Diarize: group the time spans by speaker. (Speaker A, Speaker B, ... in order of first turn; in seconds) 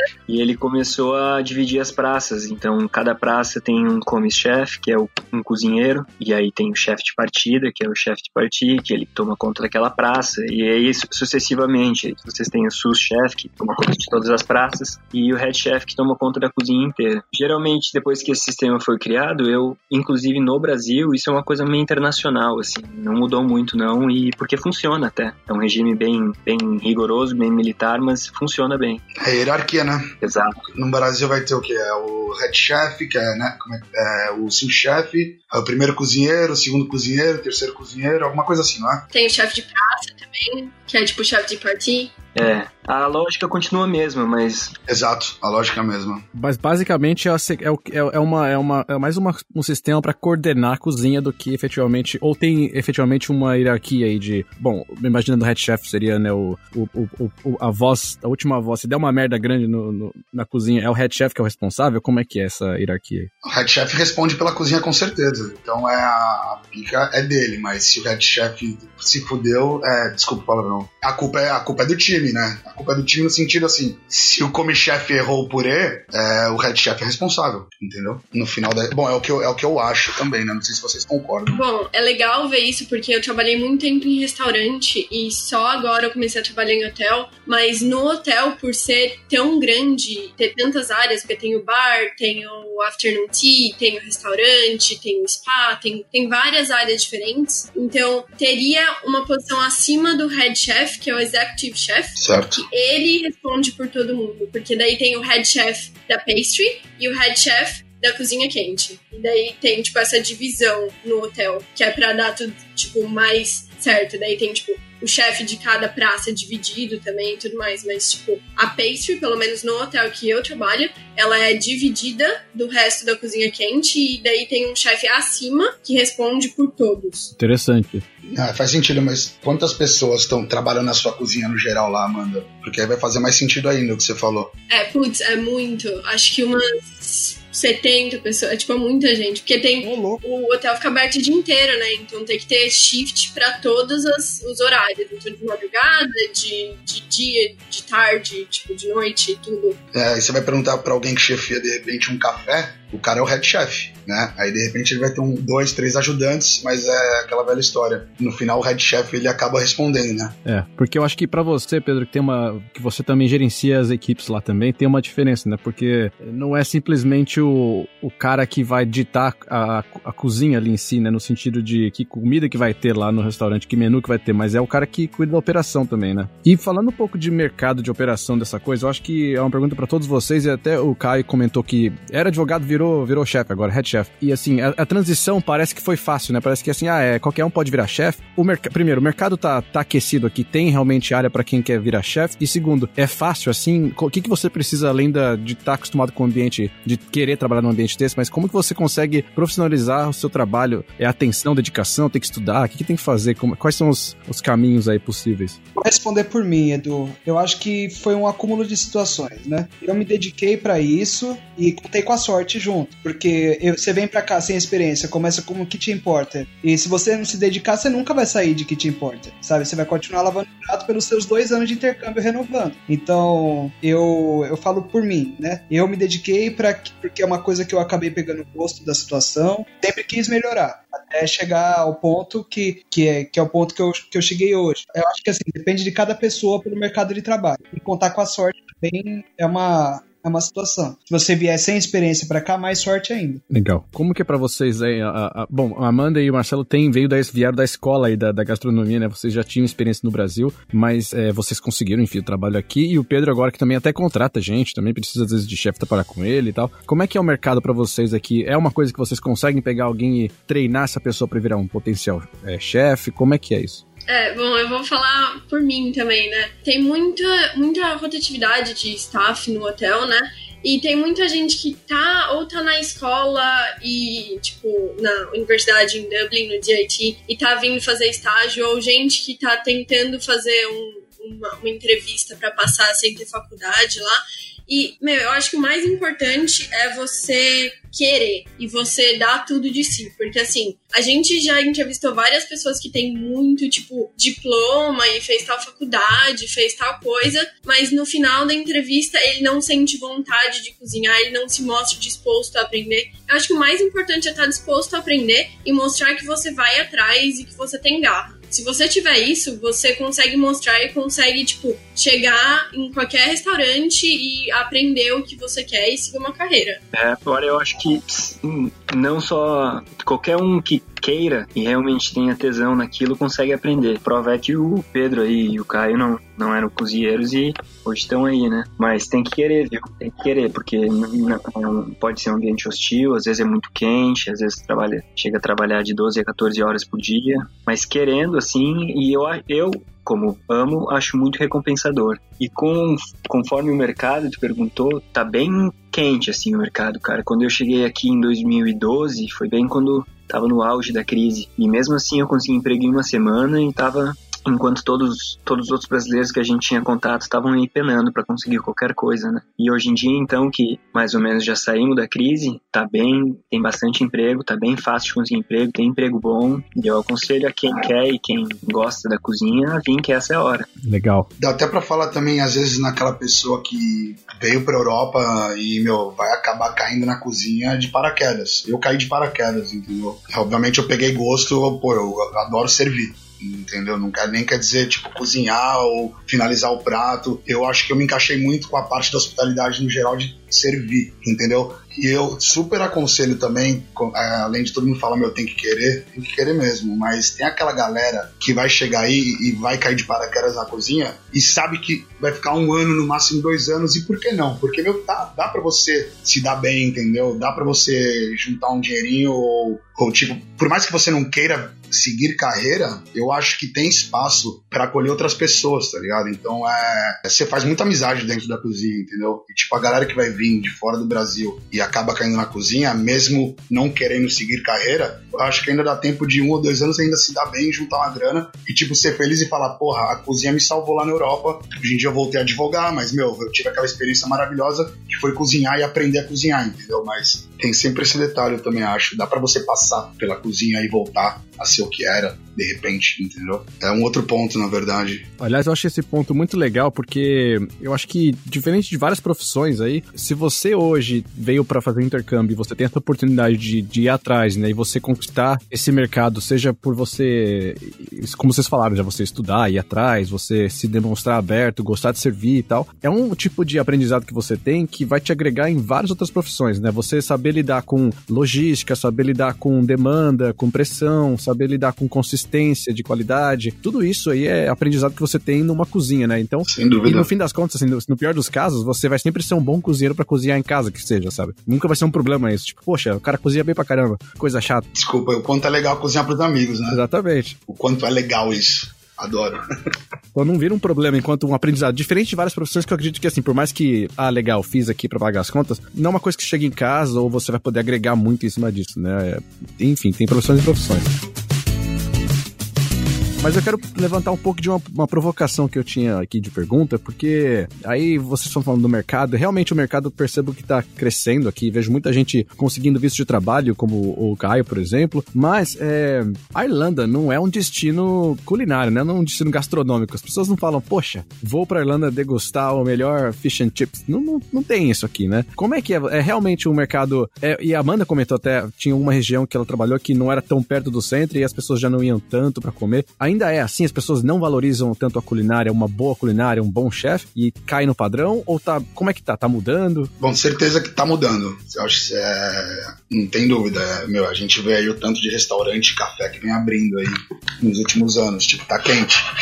Speaker A: 0.3-29.0, 30.2-30.6, 42.4-44.7, 316.9-370.7
Speaker B: 29.2-30.1, 30.7-39.0, 44.9-46.2, 63.4-81.6, 102.2-102.6, 128.3-134.5, 149.9-160.4, 371.4-445.3, 476.7-477.3, 484.9-487.0, 487.7-489.6, 540.2-549.2
Speaker C: 39.1-42.1, 81.5-127.3, 134.7-149.8, 264.1-316.8
Speaker D: 46.4-63.3, 127.4-128.0, 160.4-205.6, 243.5-263.8, 370.8-371.3, 445.4-484.9, 486.9-487.6, 490.4-501.1, 503.4-540.1
Speaker E: 139.8-140.2, 205.8-243.4